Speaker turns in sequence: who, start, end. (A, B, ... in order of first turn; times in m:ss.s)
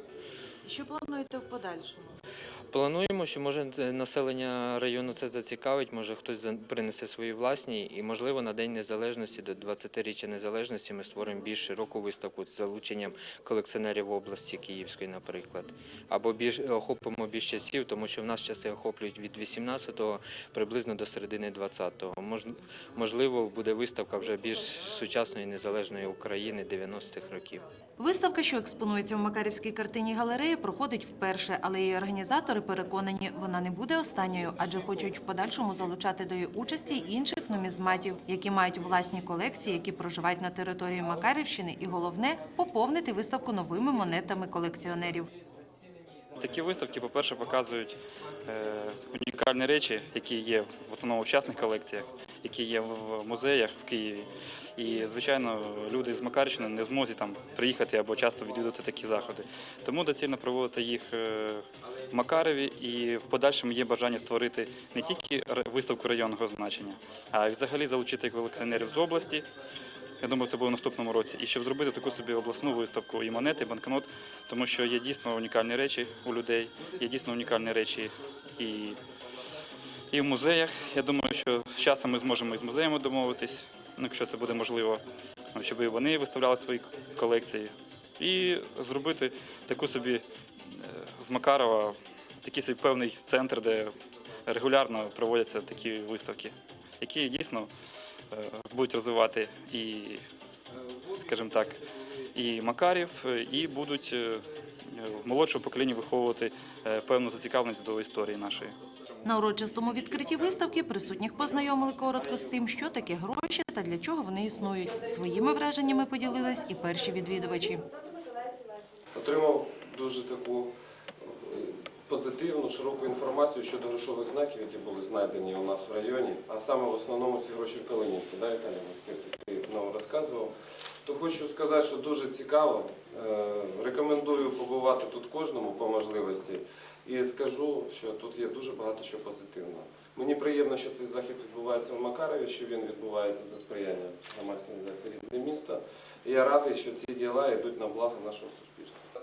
0:00.6-0:02.1 A
0:02.7-0:27.6 B
0:28.0-0:45.3 A
0:46.4-1:09.5 C
1:10.2-1:19.0 C
1:20.1-1:25.0 C
1:25.6-1:30.2 C
1:30.8-1:33.9 C
1:34.5-1:37.7 C
1:38.3-1:40.2 C
1:41.2-1:41.8 C
1:42.4-1:44.4 C
1:45.0-1:48.8 C
1:49.2-1:57.8 A
1:59.2-2:10.5 D
2:11.0-2:29.0 D